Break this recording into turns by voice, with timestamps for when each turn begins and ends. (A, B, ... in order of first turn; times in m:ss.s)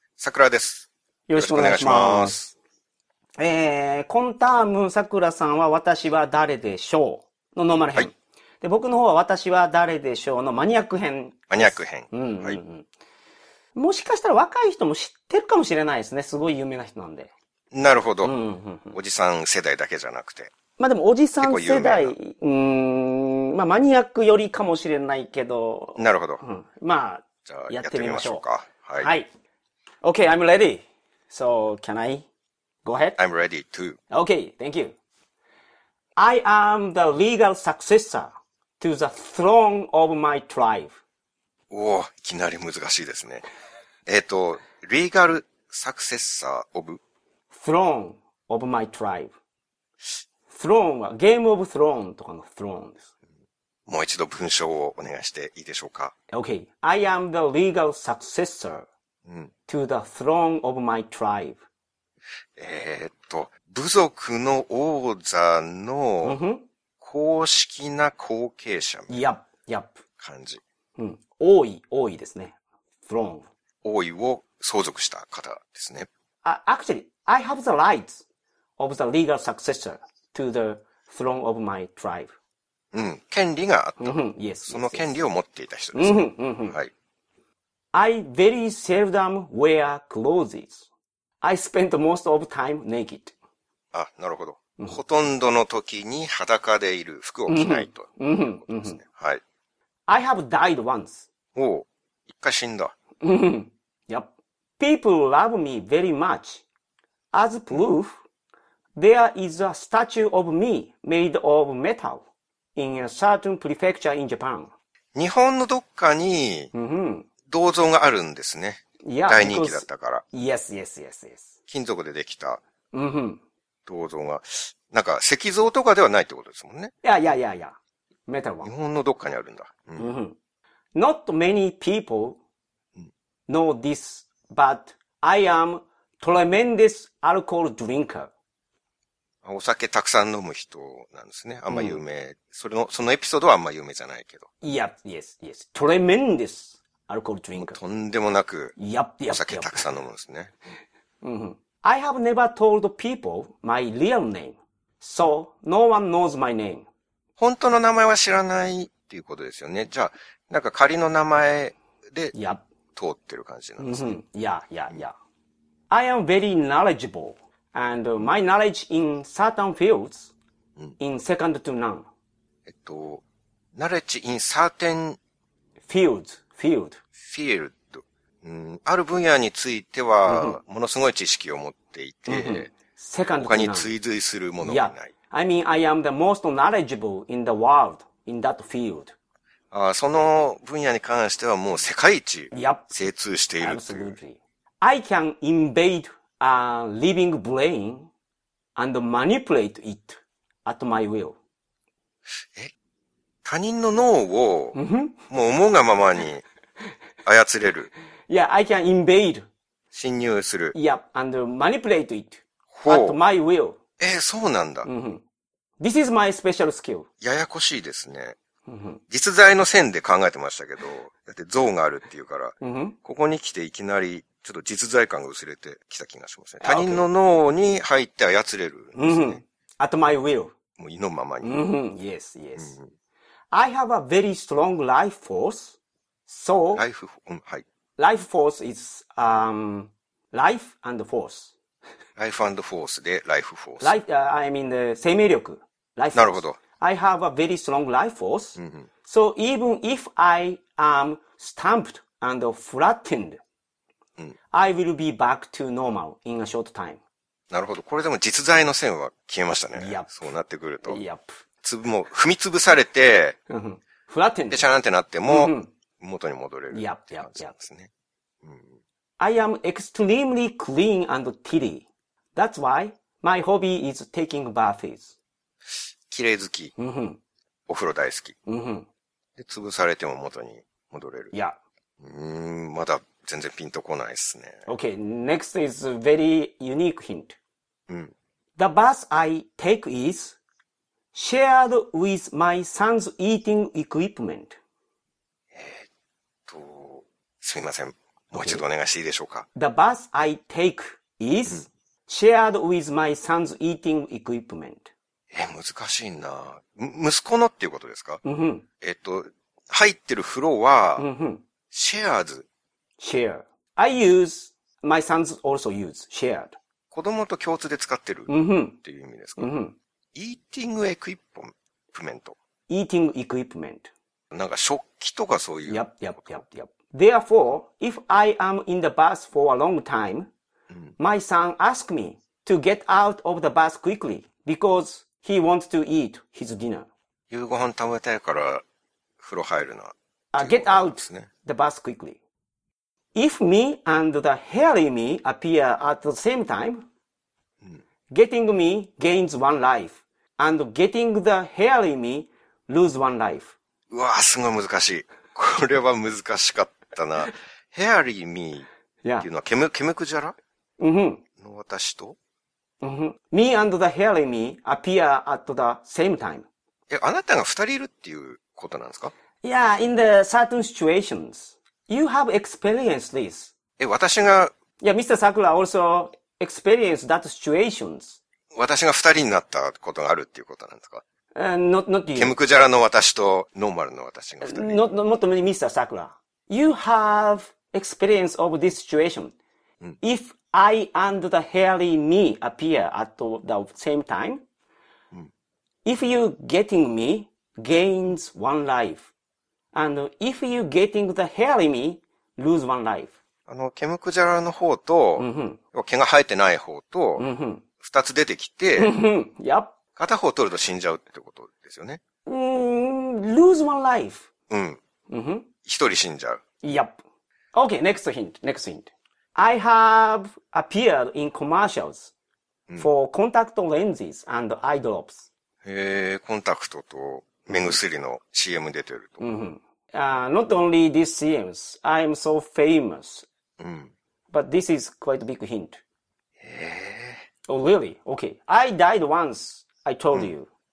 0:00.2-0:02.5 A
0:01.3-0:02.4 B
0:03.4-0:12.9 B
0:11.5-0:12.6 A
0:13.7-0:17.3 B
0:17.7-0:18.3 A
0:18.2-0:19.0 B
0:18.9-0:20.5 A
0:20.8-0:28.4 B
0:21.4-0:22.1 A
0:26.0-0:26.4 A
0:27.4-0:29.1 A
0:29.0-0:29.3 B
0:30.0-0:32.2 B
0:32.8-0:33.2 B
0:33.2-0:34.0 A
0:34.1-0:35.0 B
0:36.2-0:41.0 B
0:41.7-0:43.4 A
0:44.0-0:47.0 A
0:47.5-0:49.3 B
0:50.5-0:53.1 B
0:53.9-0:56.1 A
0:56.3-0:58.9 B
0:59.2-0:59.5 A
0:59.7-1:01.6 B
1:02.6-1:06.4 A
1:06.2-1:06.6 B
1:07.0-1:09.2 A
1:09.1-1:10.0 B
1:10.2-1:10.6 A
1:11.0-1:12.6 B
1:13.1-1:13.5 B
1:13.8-1:16.1 A
1:16.4-1:18.2 B
1:18.8-1:22.3 B
1:22.9-1:26.9 A
1:24.0-1:25.1 B
1:25.9-1:26.8 B
1:27.9-1:30.8 B
1:31.4-1:33.3 B
1:33.9-1:39.4 A
1:37.5-1:39.0 B
1:40.1-1:41.3 B
1:41.5-1:42.9 A
1:43.2-1:46.6 B
1:47.3-1:48.2 B
1:49.0-1:54.7 B
1:55.1-1:56.7 A
1:56.7-1:57.3 B
1:57.5-2:00.2 A
1:59.0-2:01.5 B
2:01.7-2:02.6 A
2:02.9-2:03.4 B
2:03.8-2:06.9 A
2:07.0-2:08.7 B
2:08.6-2:10.1 A
2:10.0-2:10.4 B
2:10.9-2:12.4 B
2:13.5-2:18.3 B
2:19.4-2:24.5 A
2:21.7-2:22.0 B
2:24.6-2:27.8 B
2:27.6-2:28.8 A
2:28.8-2:29.9 B
2:29.3-2:30.5 A
2:31.2-2:36.9 B
2:37.4-2:42.3 A
2:42.3-2:42.6 B
2:43.0-2:44.2 A
2:43.8-2:45.1 B
2:45.9-2:50.3 B
2:51.0-2:52.1 B
2:52.7-2:53.2 A
2:53.7-2:55.2 A
2:55.9-2:57.0 B
2:57.2-3:02.7 A
3:00.2-3:00.6 B
3:02.3-3:03.9 B
3:03.4-3:05.1 A
3:04.6-3:09.1 B
3:09.7-3:14.2 A
3:12.5-3:12.9 B
3:13.6-3:18.1 B
3:18.8-3:21.4 B
3:23.4-3:24.8 A
3:24.7-3:25.2 B
3:25.3-3:26.4 A
3:27.2-3:27.9 A
3:28.3-3:29.5 B
3:29.9-3:30.7 A
3:30.7-3:33.8 B
3:32.7-3:33.2 A
3:34.0-3:34.9 A
3:34.8-3:35.2 B
3:35.8-3:37.1 B
3:37.2-3:38.4 A
3:38.6-3:39.0 B
3:39.1-3:49.4 A
3:42.6-3:43.0 B
3:46.6-3:47.0 B
3:48.9-3:50.5 B
3:50.8-3:51.6 A
3:51.4-3:52.8 B
3:52.6-3:52.9 A
3:53.5-3:56.8 B
3:56.7-3:57.6 A
3:58.0-4:01.5 B
4:02.2-4:03.9 A
4:03.8-4:13.4 B
4:06.1-4:06.6 A
4:08.6-4:08.9 A
4:14.5-4:17.0 B
4:17.5-4:21.0 A
4:19.7-4:20.1 B
4:20.8-4:21.4 B
4:21.6-4:23.4 A
4:23.5-4:24.7 B
4:24.5-4:27.9 A
4:25.3-4:25.7 B
4:26.7-4:27.5 B
4:29.2-4:35.1 B
4:36.1-4:36.7 A
4:36.8-4:37.2 B
4:37.7-4:38.4 A
4:38.4-4:38.9 B
4:39.4-4:41.3 A
4:42.0-4:44.7 A
4:44.7-4:47.4 B
4:48.6-4:50.4 B
4:51.1-4:54.6 B
4:55.5-4:55.9 A
4:56.5-4:59.4 A
4:58.4-4:58.6 B
4:59.6-5:04.9 B
5:05.3-5:08.2 A
5:08.2-5:08.6 B
5:08.8-5:11.1 A
5:11.0-5:11.4 B
5:11.7-5:12.5 A
5:13.0-5:16.5 B
5:16.9-5:18.3 A
5:18.3-5:18.8 B
5:18.8-5:19.5 A
5:19.4-5:19.8 B
5:20.1-5:22.4 A
5:22.7-5:23.9 B
5:24.3-5:26.4 A
5:25.7-5:30.3 B
5:31.0-5:36.9 B
5:37.3-5:38.6 A
5:39.2-5:41.3 A
5:40.3-5:42.2 B
5:43.1-5:46.8 B
5:48.1-5:53.5 B
5:53.9-5:58.7 A
5:59.2-6:00.4 A
6:00.8-6:01.2 B
6:01.4-6:02.2 A
6:02.8-6:06.5 B
6:06.9-6:09.1 A
6:09.4-6:13.5 B
6:13.8-6:14.5 A
6:14.8-6:18.2 B
6:18.5-6:21.0 A
6:21.3-6:22.4 B
6:22.1-6:24.8 A
6:24.4-6:29.3 B
6:30.0-6:34.4 B
6:35.8-6:39.1 B
6:39.7-6:43.1 B
6:43.5-6:47.2 A
6:45.2-6:45.6 B
6:47.2-6:47.6 B
6:47.8-6:48.9 A
6:48.8-6:49.7 B
6:50.0-6:52.0 A
6:52.2-6:54.2 B
6:54.5-6:54.8 A
6:55.1-6:55.5 B
6:55.6-6:56.4 A
6:56.6-6:57.0 B
6:57.5-7:02.1 B
7:02.8-7:05.3 B
7:05.6-7:09.2 A
7:07.5-7:07.8 B
7:09.2-7:13.3 B
7:13.6-7:13.9 A
7:14.3-7:15.8 B
7:16.4-7:17.2 A
7:17.5-7:20.5 B